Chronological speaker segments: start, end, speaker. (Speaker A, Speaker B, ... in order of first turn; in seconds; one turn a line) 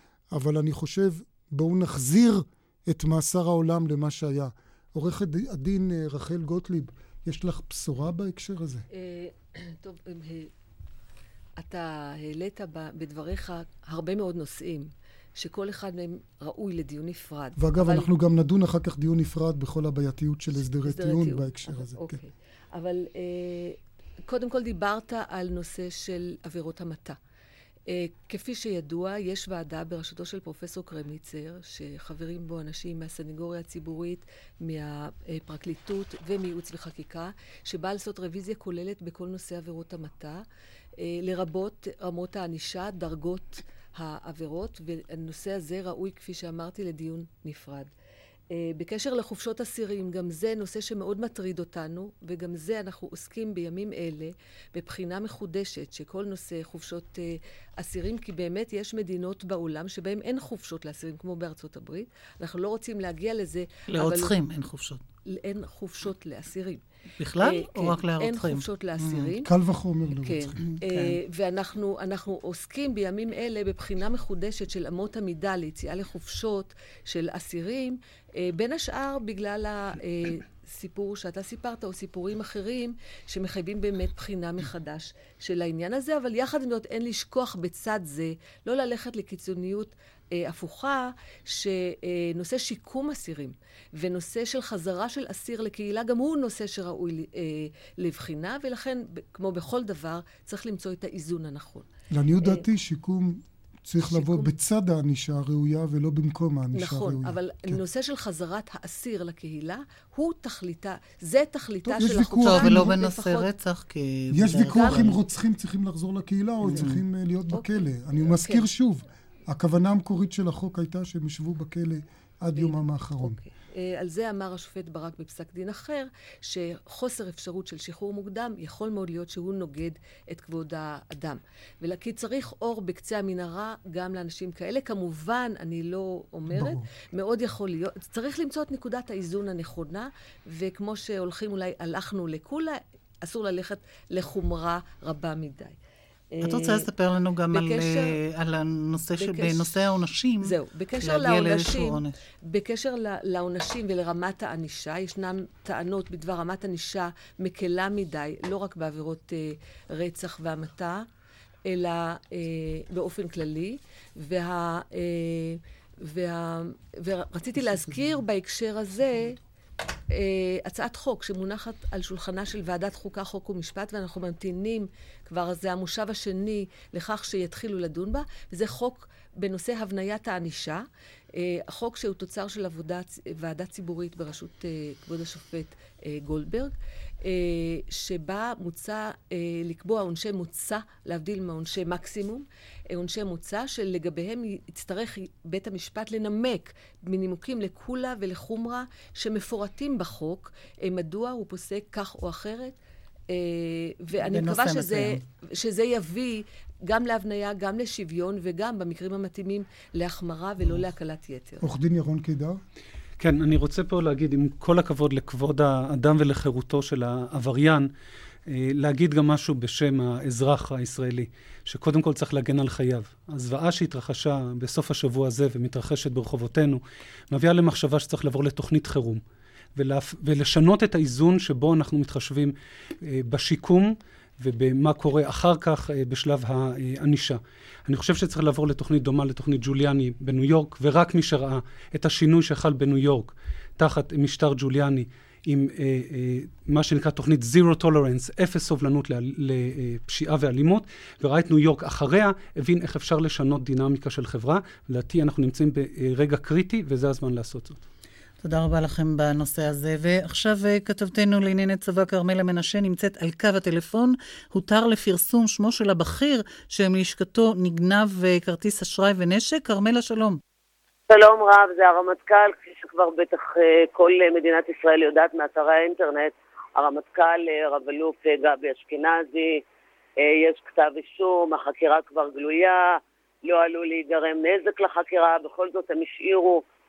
Speaker A: 0.3-8.9
Speaker B: 8.9-10.5
Speaker B: 11.6-18.1
Speaker A: 17.6-22.2
Speaker B: 20.7-27.2
Speaker B: 27.9-40.4
Speaker B: 41.0-47.9
Speaker B: 48.5-64.3
Speaker C: 63.9-65.0
Speaker B: 65.3-66.8
Speaker C: 67.2-69.3
Speaker B: 67.4-69.5
Speaker A: 69.4-70.7
Speaker B: 70.2-101.9
Speaker C: 70.7-71.2
Speaker A: 102.1-107.8
Speaker B: 104.0-104.5
Speaker B: 106.8-113.5
Speaker A: 111.9-112.9
Speaker C: 112.4-115.2
Speaker A: 114.3-123.4
Speaker B: 114.5-115.0
Speaker C: 116.7-117.0
Speaker B: 117.5-118.7
Speaker B: 122.6-145.8
Speaker A: 136.5-136.8
Speaker B: 146.4-146.9
Speaker C: 146.4-152.2
Speaker B: 147.5-148.2
Speaker B: 149.2-149.7
Speaker B: 150.4-161.1
Speaker B: 161.7-169.4
Speaker B: 170.1-202.8
Speaker B: 203.3-211.6
Speaker C: 204.2-205.2
Speaker A: 211.6-212.6
Speaker D: 213.2-217.9
Speaker D: 218.5-229.2
Speaker D: 229.8-257.8
Speaker C: 258.4-270.4
Speaker E: 271.1-279.6
Speaker E: 280.2-286.6